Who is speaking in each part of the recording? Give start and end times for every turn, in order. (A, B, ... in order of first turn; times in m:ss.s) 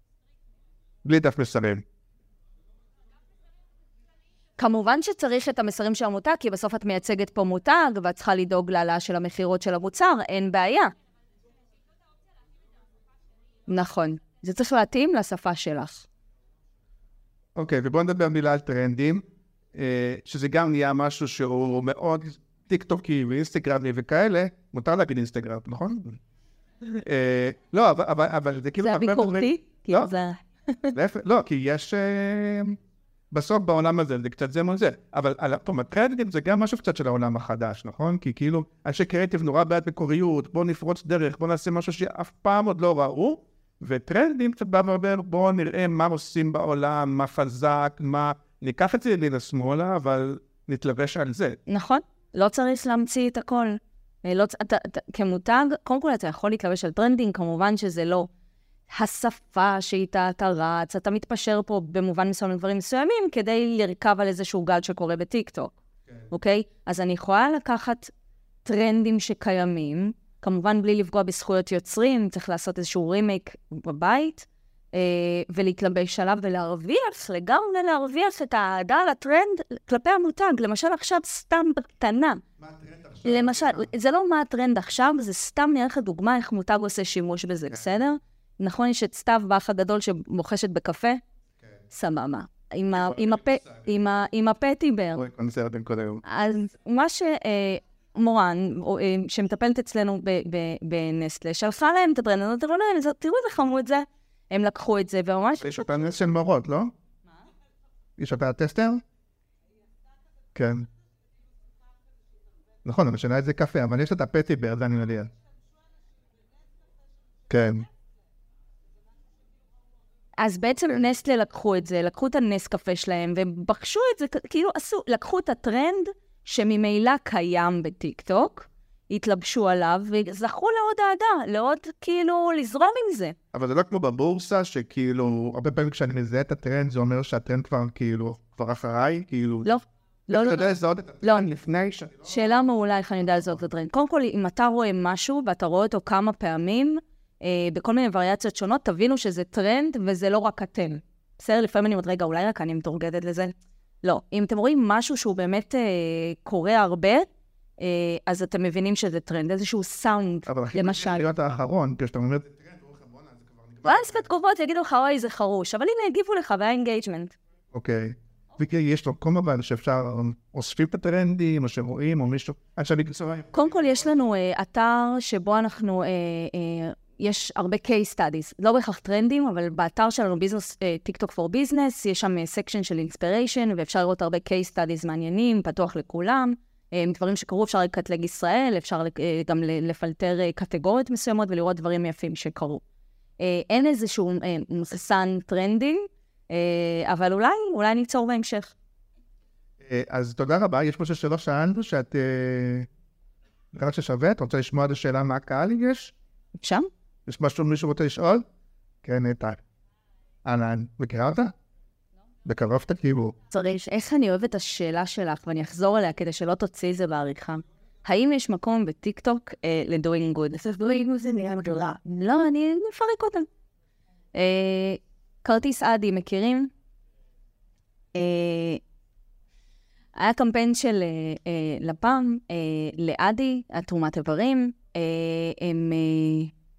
0:01.0-0:01.8 A
0:04.6-0:10.9 B
0:13.7-0:16.1 B
0:17.6-0:19.2 A
0:19.7-0:26.2 A
0:27.0-0:30.1 A
0:28.8-0:31.0 B
0:30.9-0:32.8 A
0:33.3-0:51.6 A
0:51.7-0:58.3 B
0:58.9-1:05.8 B
1:06.3-1:08.1 B
1:08.6-1:22.4 B
1:22.6-1:23.9 A
1:23.2-1:31.2 B
1:31.9-1:35.2 B
1:32.9-1:33.8 A
1:35.2-1:36.2 A
1:36.2-1:45.9 B
1:45.6-1:46.9 A
1:48.2-1:49.0 A
1:50.6-1:50.9 A
1:52.8-1:55.3 A
1:57.5-1:57.9 A
2:00.4-2:13.4 B
2:13.5-2:19.7 A
2:19.6-2:20.7 B
2:20.3-2:22.7 A
2:22.3-2:37.3 B
2:23.2-2:23.6 A
2:37.8-2:41.2 B
2:40.5-2:44.3 A
2:43.8-2:47.4 B
2:47.7-2:54.2 A
2:53.5-3:12.8 B
3:13.4-3:18.7 B
3:19.8-3:22.9 A
3:23.7-3:26.1 A
3:26.6-3:26.9 B
3:27.3-3:28.4 A
3:29.0-3:29.6 A
3:30.4-3:31.5 A
3:32.5-3:33.4 A
3:33.5-3:43.5 B
3:44.4-3:46.7 B
3:48.1-3:48.8 B
3:50.2-3:56.5 B